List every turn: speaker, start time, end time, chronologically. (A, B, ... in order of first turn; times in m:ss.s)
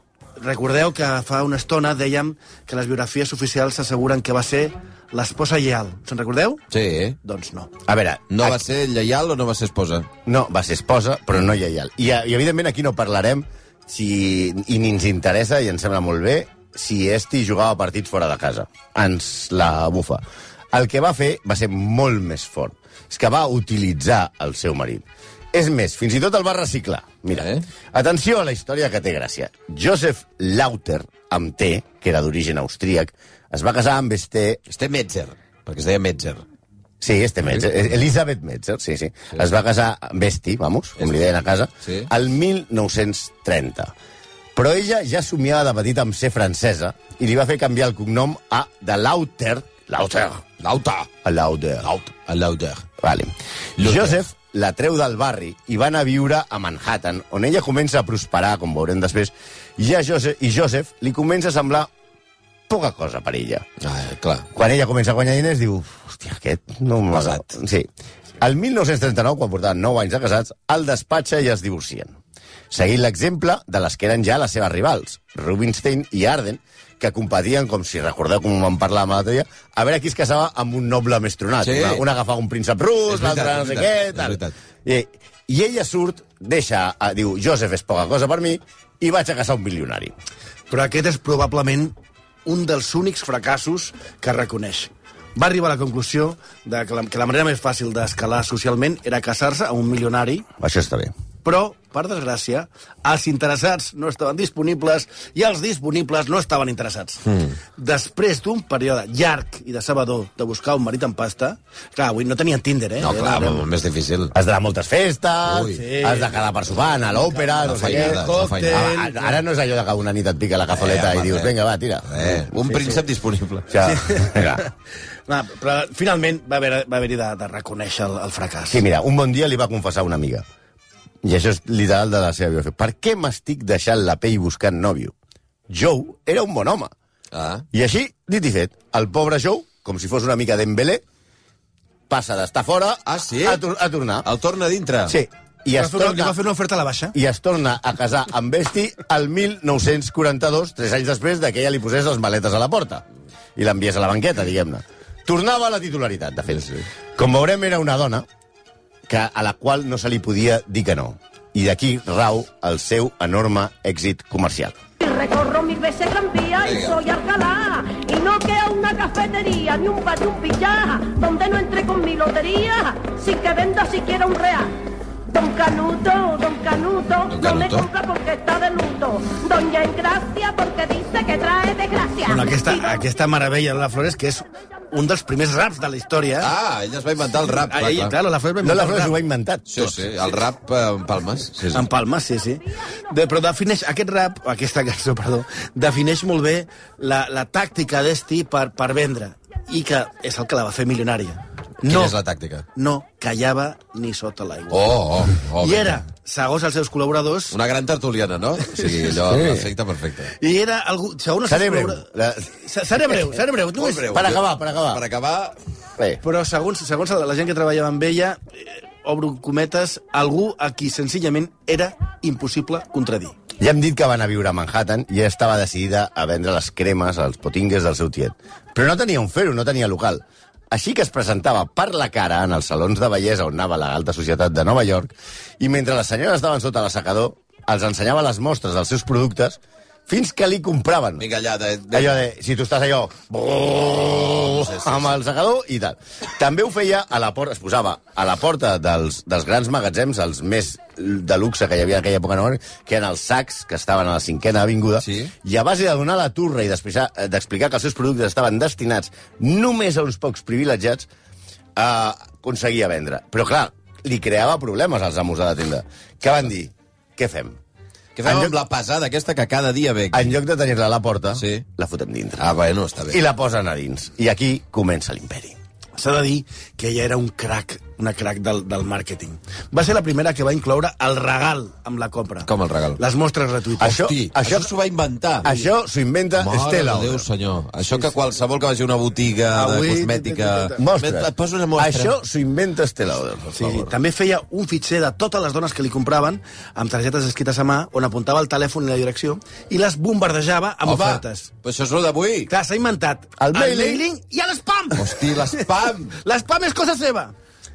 0:00.4-0:06.6 A
0:06.7-0:07.2 B
0:07.2-0:07.7 A
0:07.9-0:08.6 C
0:08.3-0:10.1 B
0:10.2-0:34.6 C
0:27.3-0:27.6 B
0:34.7-0:36.4 B
0:37.0-0:43.9 C
0:41.8-0:42.1 B
0:44.5-0:50.4 C
0:50.6-0:51.1 B
0:51.2-0:52.0 C
0:51.8-0:52.8 B
0:53.0-1:01.9 C
0:53.8-0:54.2 B
1:02.7-1:03.6 C
1:03.8-1:04.5 B
1:04.5-1:07.9 C
1:07.1-1:07.4 B
1:08.4-1:12.2 C
1:12.7-1:30.1 C
1:21.6-1:22.0 B
1:23.1-1:24.5 B
1:30.7-1:31.9 A
1:32.4-1:40.5 A
1:40.6-1:41.1 C
1:41.4-1:47.2 A
1:47.2-1:47.5 B
1:47.8-1:53.6 A
1:53.0-1:54.3 B
1:54.3-2:02.4 C
1:55.4-1:55.8 B
1:55.7-1:56.4 A
1:57.1-1:59.4 A
1:57.6-1:58.9 B
2:00.7-2:01.5 B
2:02.1-2:03.8 B
2:02.7-2:03.0 A
2:03.7-2:04.6 C
2:03.8-2:04.6 A
2:05.3-2:08.8 A
2:08.7-2:10.4 C
2:11.2-2:15.1 C
2:15.7-2:16.9 C
2:17.3-2:17.6 B
2:17.7-2:21.0 C
2:22.1-2:24.3 C
2:23.0-2:23.6 B
2:24.2-2:25.2 B
2:25.1-2:26.4 C
2:25.7-2:27.2 A
2:27.1-2:33.0 C
2:33.6-2:38.2 C
2:39.1-2:44.8 C
2:45.0-2:54.8 D
2:46.6-2:47.0 B
2:55.3-3:03.0 D
2:57.3-2:57.9 B
3:02.3-3:06.5 A
3:06.4-3:08.1 B
3:07.4-3:09.2 A
3:08.6-3:10.1 C
3:09.7-3:11.9 B
3:11.7-3:22.2 A
3:21.8-3:22.6 B
3:22.7-3:27.6 A
3:24.7-3:26.0 B
3:27.5-3:30.3 B
3:29.2-3:29.7 C
3:30.4-3:32.0 A
3:31.5-3:32.5 C
3:32.6-3:34.1 A
3:33.8-3:35.6 B
3:34.1-3:35.0 C
3:36.2-3:43.4 A
3:43.6-4:01.3 C
4:01.2-4:02.2 B
4:01.9-4:21.1 C
4:03.8-4:05.2 B
4:15.0-4:15.3 B
4:21.8-4:27.6 C
4:28.2-4:30.4 B
4:28.2-4:28.6 C
4:30.1-4:32.5 C
4:31.4-4:31.6 B
4:32.4-4:33.2 B
4:33.1-4:35.6 C
4:36.0-4:44.0 A
4:42.4-4:43.0 B
4:43.8-4:44.7 C
4:43.9-4:45.5 B
4:45.4-4:47.3 C
4:46.4-4:52.1 B
4:49.5-4:50.8 A
4:50.8-4:53.6 C
4:53.5-5:01.5 A
5:00.8-5:02.5 B
5:02.5-5:05.6 A
5:03.4-5:04.0 C
5:04.9-5:06.2 B
5:06.2-5:07.3 A